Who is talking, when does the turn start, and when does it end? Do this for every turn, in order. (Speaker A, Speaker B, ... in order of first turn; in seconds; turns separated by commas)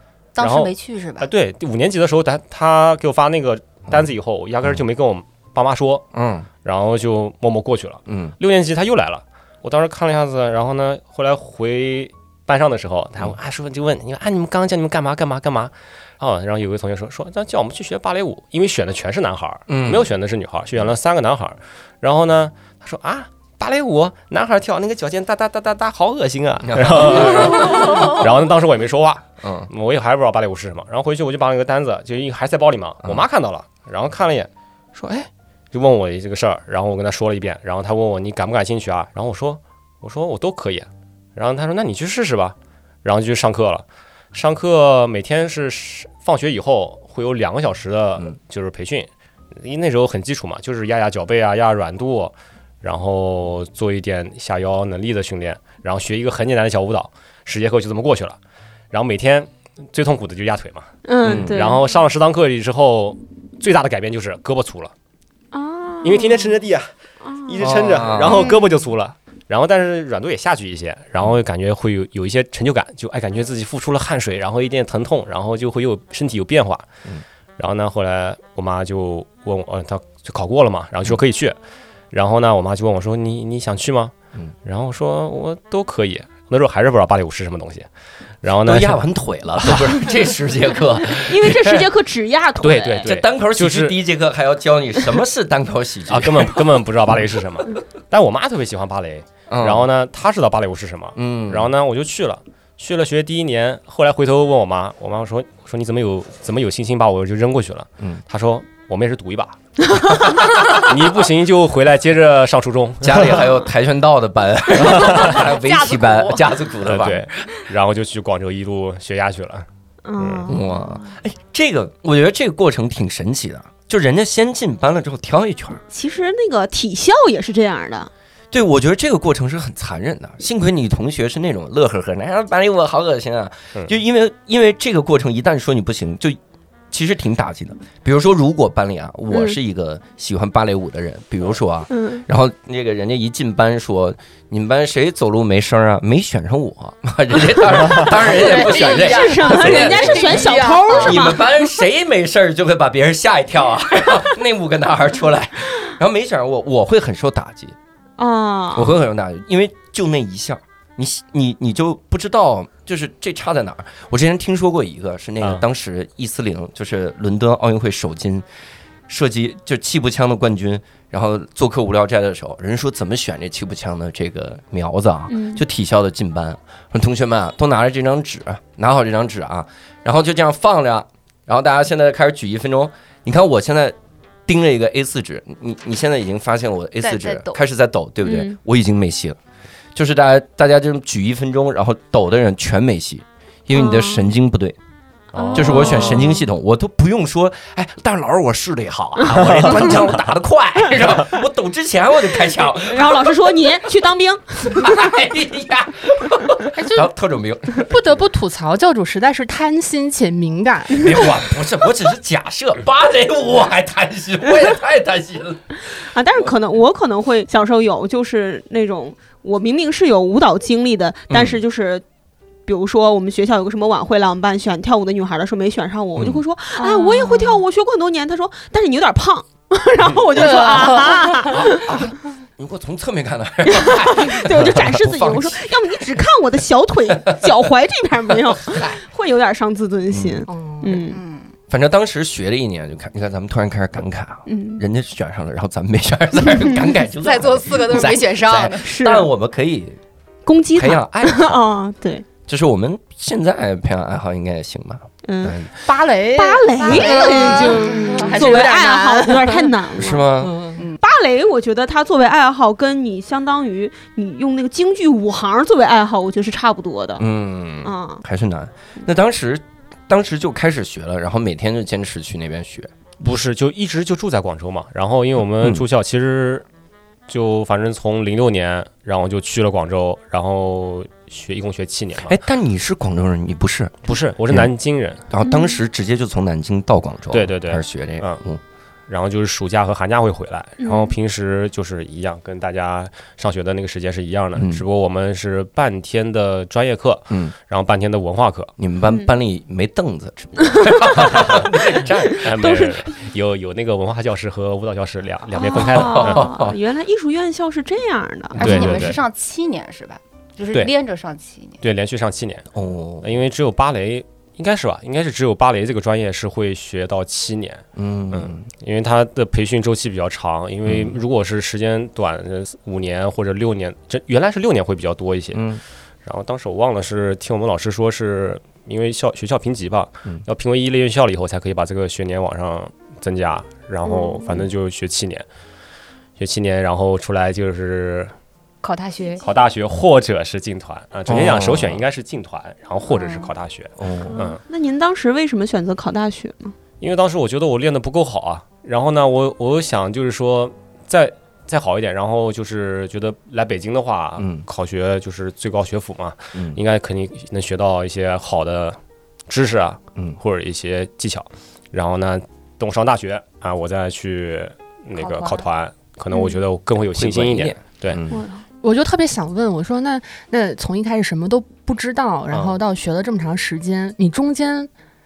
Speaker A: 0.4-1.3, Speaker B: 0.4-6.1, Speaker C: 6.1-6.5, Speaker B: 6.6-49.1, Speaker C: 8.1-8.3, Speaker C: 19.7-20.1, Speaker C: 26.7-27.8, Speaker C: 29.4-29.7, Speaker B: 49.6-58.4, Speaker B: 58.9-64.9, Speaker D: 61.1-61.8, Speaker C: 61.2-61.6, Speaker D: 65.5-66.5, Speaker B: 66.0-66.9, Speaker D: 67.2-67.6, Speaker B: 67.5-76.9, Speaker C: 67.6-68.5, Speaker D: 68.3-68.6, Speaker B: 77.6-81.6, Speaker B: 82.1-84.1, Speaker B: 84.7-87.9, Speaker B: 88.4-89.0, Speaker C: 88.7-91.8, Speaker D: 91.2-93.1, Speaker B: 92.6-94.0, Speaker C: 93.0-96.8, Speaker B: 96.1-113.5, Speaker C: 99.5-99.9, Speaker C: 101.2-101.7, Speaker C: 113.0-117.3, Speaker B: 115.0-115.4, Speaker A: 115.3-116.5, Speaker B: 116.8-119.7, Speaker D: 120.0-120.6, Speaker B: 120.2-120.5, Speaker C: 120.5-125.8, Speaker D: 125.9-128.1, Speaker C: 128.5-136.4, Speaker C: 136.9-157.8, Speaker D: 139.3-139.6, Speaker D: 141.9-142.2, Speaker E: 148.2-151.3, Speaker D: 148.3-151.5, Speaker D: 158.2-159.0, Speaker C: 158.7-168.5, Speaker C: 169.1-189.4, Speaker D: 175.3-175.6, Speaker A: 187.0-187.6, Speaker D: 188.2-188.6, Speaker C: 189.9-194.8, Speaker D: 193.7-194.3, Speaker B: 195.3-196.2, Speaker D: 195.3-196.4, Speaker C: 195.5-203.5, Speaker B: 199.4-200.2, Speaker D: 202.8-205.0, Speaker C: 204.7-208.2, Speaker E: 206.8-207.1, Speaker E: 207.8-211.3, Speaker C: 210.9-215.7, Speaker D: 216.0-222.0, Speaker C: 221.3-221.6, Speaker D: 222.7-232.0, Speaker E: 230.3-231.5, Speaker C: 231.5-236.0, Speaker D: 233.7-241.2, Speaker C: 237.1-237.6, Speaker C: 238.7-239.0, Speaker C: 240.1-240.5, Speaker E: 240.5-241.0, Speaker A: 241.1-241.5, Speaker C: 241.7-250.0, Speaker D: 244.5-244.8, Speaker A: 247.2-248.9, Speaker D: 248.8-249.3, Speaker D: 250.5-252.2, Speaker C: 250.8-251.6, Speaker C: 252.5-255.7, Speaker D: 255.2-255.6, Speaker E: 255.8-259.7, Speaker D: 256.3-260.3, Speaker A: 256.9-258.3, Speaker C: 260.0-260.7, Speaker E: 260.4-260.8, Speaker D: 261.0-267.2, Speaker C: 267.2-272.9, Speaker D: 267.8-268.2, Speaker B: 273.2-276.6, Speaker B: 277.3-282.4, Speaker C: 282.2-284.7, Speaker B: 284.1-285.2, Speaker C: 285.3-288.6, Speaker D: 285.4-285.8, Speaker B: 287.3-288.4, Speaker B: 289.1-298.7, Speaker D: 290.8-291.1, Speaker C: 294.6-294.9, Speaker C: 298.8-302.6, Speaker D: 300.6-301.6, Speaker D: 302.3-303.1, Speaker B: 302.4-306.5, Speaker D: 305.6-308.9, Speaker C: 305.7-306.8, Speaker A: 308.6-311.8, Speaker C: 308.6-309.1, Speaker B: 308.6-309.2, Speaker B: 311.8-312.7, Speaker C: 312.7-313.3, Speaker B: 313.2-325.7, Speaker C: 318.0-318.6, Speaker C: 320.9-321.2, Speaker C: 325.5-325.8, Speaker B: 326.2-335.5, Speaker D: 334.1-334.5, Speaker B: 336.4-338.3, Speaker A: 338.8-339.4, Speaker B: 339.4-344.6, Speaker C: 341.3-342.0, Speaker A: 343.1-343.5, Speaker C: 344.0-344.4, Speaker D: 344.3-346.8, Speaker B: 347.0-368.2, Speaker C: 354.4-354.6, Speaker C: 356.5-356.8, Speaker A: 365.2-365.7, Speaker C: 367.1-368.4, Speaker D: 368.3-368.6, Speaker E: 368.8-374.9, Speaker B: 372.5-372.8